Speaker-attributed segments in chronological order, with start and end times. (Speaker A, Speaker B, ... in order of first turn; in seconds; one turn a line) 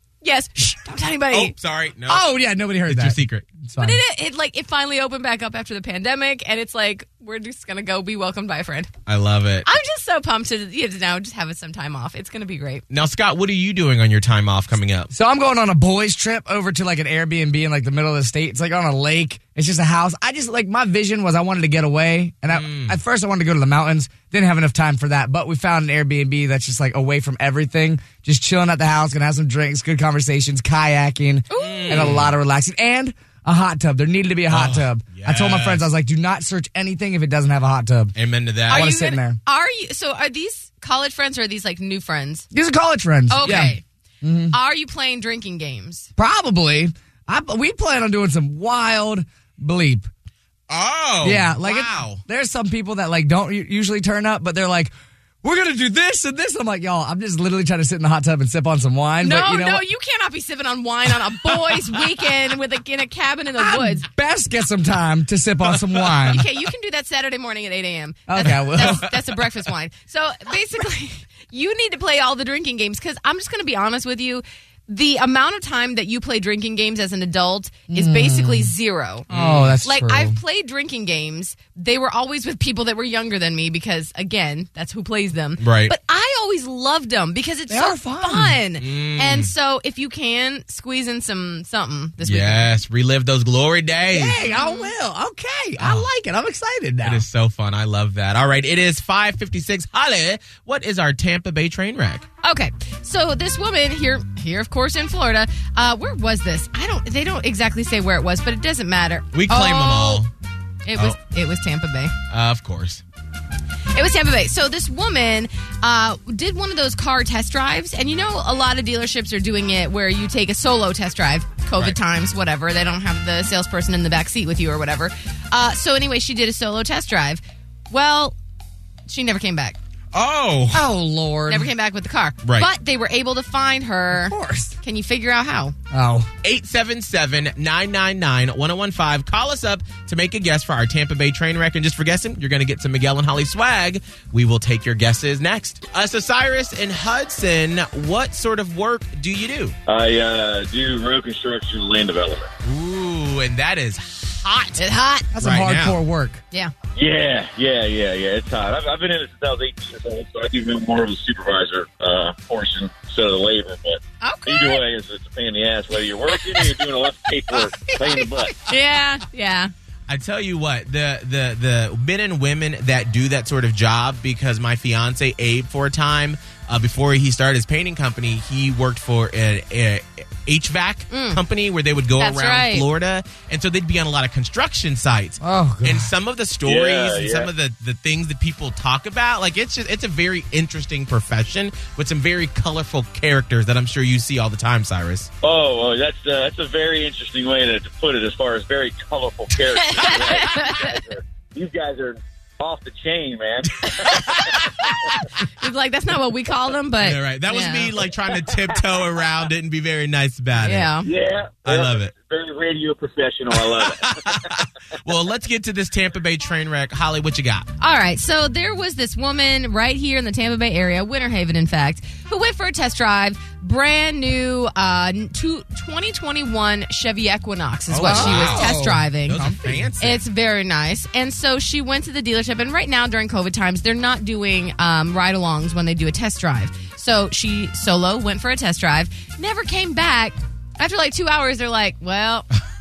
Speaker A: 0.2-1.6
Speaker B: 1.3-2.3
Speaker C: 2.1-4.0
Speaker B: 2.9-3.5
Speaker A: 3.8-8.9
Speaker B: 9.1-9.7
Speaker A: 9.6-12.8
Speaker B: 12.9-15.1
Speaker C: 15.1-38.1
Speaker B: 22.5-23.0
Speaker A: 31.5-32.2
Speaker B: 31.6-32.3
Speaker B: 34.5-35.9
Speaker B: 38.1-38.9
Speaker A: 38.7-42.5
Speaker C: 38.7-39.4
Speaker C: 42.5-44.5
Speaker A: 43.3-43.8
Speaker B: 43.4-43.7
Speaker A: 44.5-46.1
Speaker C: 46.2-50.1
Speaker B: 50.7-52.2
Speaker C: 51.2-54.9
Speaker C: 55.4-59.8
Speaker A: 59.2-64.1
Speaker C: 63.6-66.4
Speaker A: 66.3-79.3
Speaker C: 68.3-69.1
Speaker B: 68.8-69.0
Speaker C: 77.9-78.7
Speaker B: 79.3-79.8
Speaker C: 79.3-80.4
Speaker A: 79.8-92.7
Speaker B: 85.6-85.9
Speaker C: 87.7-88.6
Speaker B: 88.8-89.5
Speaker B: 92.2-94.4
Speaker C: 94.1-97.2
Speaker A: 94.5-94.9
Speaker B: 95.8-96.1
Speaker B: 97.0-102.3
Speaker A: 102.4-110.3
Speaker B: 109.3-110.3
Speaker A: 110.8-112.1
Speaker B: 112.3-113.0
Speaker A: 113.9-128.4
Speaker A: 129.1-129.8
Speaker B: 130.1-130.9
Speaker C: 130.7-131.7
Speaker A: 131.5-135.7
Speaker B: 132.4-132.7
Speaker C: 134.1-134.8
Speaker C: 135.9-136.3
Speaker B: 136.4-149.8
Speaker D: 149.9-152.5
Speaker B: 152.6-154.8
Speaker A: 154.8-155.3
Speaker C: 155.3-156.4
Speaker B: 155.4-156.0
Speaker D: 156.9-168.6
Speaker A: 164.2-164.8
Speaker A: 168.7-169.7
Speaker B: 170.1-195.3
Speaker A: 181.1-181.4
Speaker A: 182.2-182.9
Speaker C: 185.4-186.1
Speaker D: 186.6-187.5
Speaker D: 195.4-204.4
Speaker A: 199.9-201.0
Speaker B: 203.9-205.3
Speaker A: 205.4-207.9
Speaker B: 207.0-210.9
Speaker A: 210.6-211.1
Speaker D: 211.0-214.4
Speaker B: 211.6-212.1
Speaker B: 213.5-217.7
Speaker A: 217.8-242.5
Speaker B: 227.9-230.2
Speaker C: 228.0-229.6